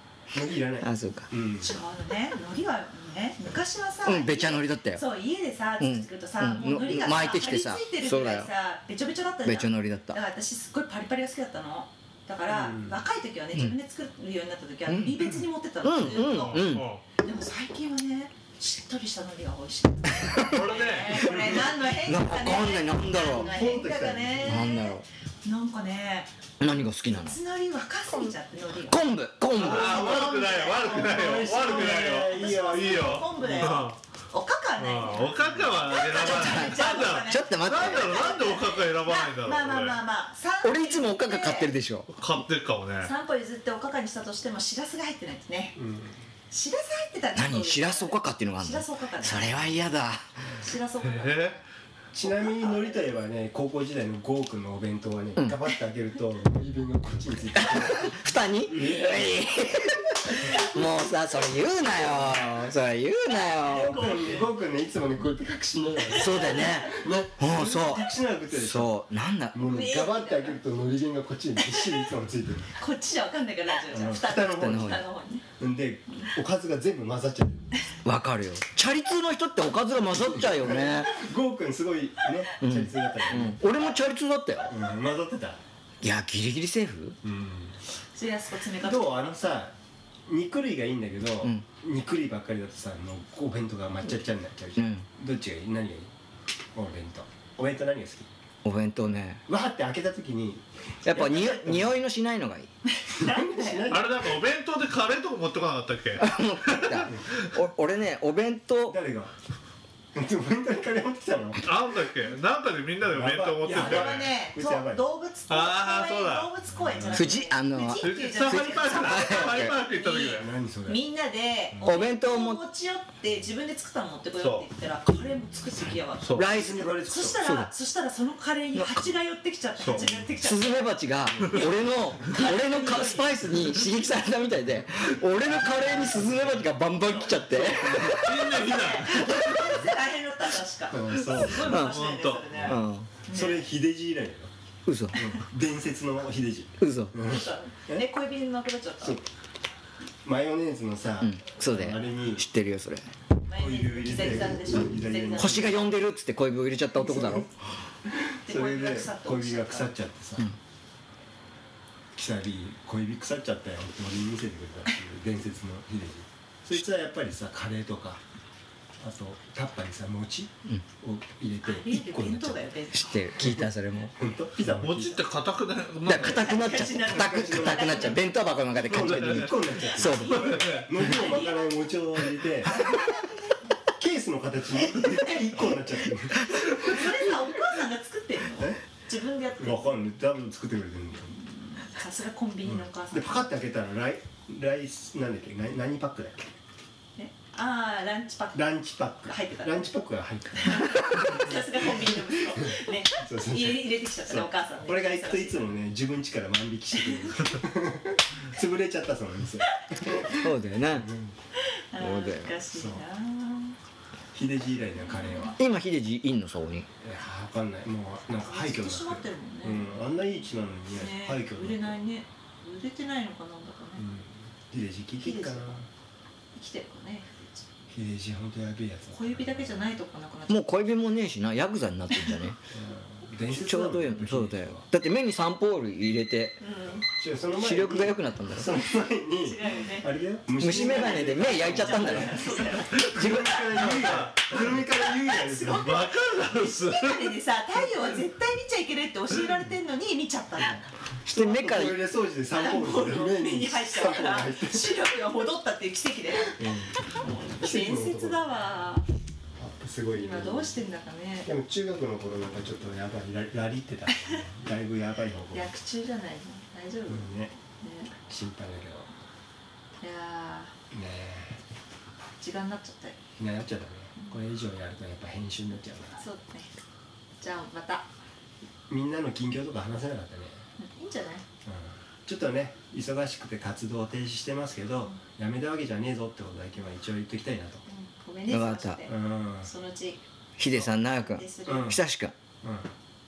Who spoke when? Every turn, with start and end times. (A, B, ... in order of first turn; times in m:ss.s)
0:00.3-0:01.7 A
0:00.8-0:01.3 B
0:01.6-0:26.3 C
0:04.0-0:05.0 B
0:05.8-0:08.5 B
0:09.4-0:10.2 B
0:12.5-0:13.0 A
0:14.9-0:15.2 B
0:15.8-0:16.9 B
0:16.0-0:17.0 D
0:20.2-0:20.6 B
0:20.4-0:21.5 D
0:21.2-0:23.5 B
0:23.3-0:24.8 A
0:24.4-0:25.0 B
0:26.6-0:27.4 B
0:27.0-0:29.0 C
0:28.8-0:30.1 B
0:29.6-0:33.8 A
0:29.6-0:34.0 D
0:30.0-0:41.7 C
0:34.8-0:40.0 D
0:36.2-0:38.3 B
0:40.6-0:42.1 B
0:42.1-0:43.1 D
0:43.0-0:45.8 C
0:45.8-0:46.2 A
0:46.5-0:49.6 C
0:47.3-0:50.2 B
0:50.6-0:51.6 C
0:51.0-0:51.6 D
0:52.1-0:58.1 A
0:52.2-0:53.0 C
0:57.6-1:04.0 B
0:58.7-0:59.4 A
1:03.6-1:08.9 A
1:03.7-1:04.5 C
1:06.1-1:06.8 C
1:06.1-1:09.6 B
1:09.5-1:12.7 A
1:09.6-1:10.6 C
1:11.6-1:12.0 C
1:12.8-1:15.4 C
1:13.9-1:14.9 A
1:14.4-1:15.0 B
1:15.6-1:17.6 A
1:18.0-1:21.2 B
1:20.3-1:23.6 A
1:22.6-1:24.7 B
1:24.7-1:25.6 A
1:26.0-1:27.2 B
1:27.2-1:27.8 A
1:28.1-1:29.3 C
1:28.8-1:29.7 A
1:30.3-1:36.1 A
1:34.8-1:35.0 B
1:36.7-1:38.3 A
1:38.6-1:39.4 B
1:39.5-1:40.6 A
1:41.0-1:42.7 B
1:41.2-1:41.8 C
1:42.8-1:43.9 C
1:43.1-1:44.3 A
1:43.9-1:47.6 D
1:46.2-1:49.0 B
1:48.9-1:49.3 A
1:50.1-1:51.6 A
1:51.6-1:54.3 D
1:53.1-1:55.0 A
1:53.6-2:10.9 C
1:55.5-1:56.5 D
1:56.9-1:57.3 A
1:57.1-1:59.8 B
1:58.0-2:00.5 D
2:00.3-2:01.0 A
2:01.8-2:02.6 B
2:04.4-2:04.7 D
2:06.2-2:06.5 D
2:06.3-2:07.7 B
2:06.5-2:07.4 A
2:08.7-2:09.1 B
2:09.8-2:10.1 D
2:09.9-2:10.4 A
2:10.4-2:18.5 B
2:11.3-2:12.1 A
2:12.2-2:13.8 C
2:17.1-2:23.7 C
2:17.5-2:18.1 A
2:18.0-2:19.5 D
2:20.9-2:21.7 A
2:21.3-2:22.5 D
2:21.6-2:22.1 B
2:22.5-2:22.8 A
2:22.6-2:23.1 B
2:23.3-2:24.5 A
2:24.9-2:25.2 B
2:25.1-2:28.1 A
2:26.8-2:27.1 B
2:27.2-2:29.2 C
2:30.2-2:32.4 A
2:31.2-2:33.1 B
2:33.5-2:35.9 C
2:33.5-2:35.8 A
2:35.4-2:37.5 B
2:37.0-2:37.4 A
2:38.0-2:40.5 A
2:38.4-2:39.9 C
2:42.1-2:48.2 A
2:49.0-2:52.6 A
2:51.6-2:53.5 C
2:52.9-2:54.1 B
2:53.4-2:55.2 A
2:54.8-2:56.6 D
2:56.0-3:00.6 B
2:56.2-2:58.2 C
2:57.2-2:58.0 A
2:58.8-3:02.8 A
2:59.9-3:01.8 C
3:02.6-3:03.5 C
3:04.0-3:07.1 A
3:05.0-3:05.6 C
3:06.7-3:10.0 C
3:09.6-3:11.4 A
3:11.3-3:13.5 C
3:12.6-3:16.5 A
3:17.2-3:18.7 C
3:18.5-3:21.1 A
3:19.2-3:19.9 C
3:20.5-3:25.7 C
3:23.1-3:31.4 A
3:30.4-3:31.1 B
3:31.6-3:33.8 C
3:32.0-3:32.5 B
3:32.7-3:33.0 A
3:34.3-3:35.6 A
3:35.1-3:35.5 C
3:35.6-3:36.9 B
3:37.0-3:42.0 A
3:38.4-3:39.9 C
3:40.9-3:44.0 C
3:44.0-3:45.9 A
3:45.2-3:45.7 C
3:46.5-3:47.6 C
3:47.9-3:49.9 A
3:49.1-3:50.7 C
3:50.5-3:52.6 B
3:52.7-3:54.9 A
3:53.5-3:56.6 B
3:56.6-3:57.0 C
3:57.0-4:06.0 A
3:57.5-3:58.7 B
3:59.4-4:00.1 C
4:00.6-4:03.7 B
4:00.7-4:03.9 C
4:03.7-4:04.7 D
4:04.9-4:10.8 C
4:05.7-4:07.4 D
4:11.2-4:12.0 B
4:11.3-4:14.9 A
4:12.5-4:19.0 C
4:16.5-4:18.4 A
4:19.6-4:20.8 A
4:20.1-4:21.5 C
4:21.4-4:25.7 A
4:24.1-4:24.4 C
4:25.5-4:27.3 C
4:27.1-4:27.6 A
4:27.8-4:28.1 C
4:28.2-4:29.1 A
4:30.0-4:30.7 C
4:30.9-4:31.6 A
4:32.4-4:33.2 C
4:33.4-4:36.2 A
4:36.2-4:36.7 C
4:37.4-4:38.1 C
4:38.9-4:40.6 A
4:40.8-4:41.4 C
4:41.6-4:47.8 A
4:47.9-4:50.2 C
4:48.5-4:49.0 B
4:49.1-4:49.7 A
4:50.6-4:52.3 B
4:51.3-4:51.9 C
4:51.6-4:52.0 A
4:52.6-4:52.9 A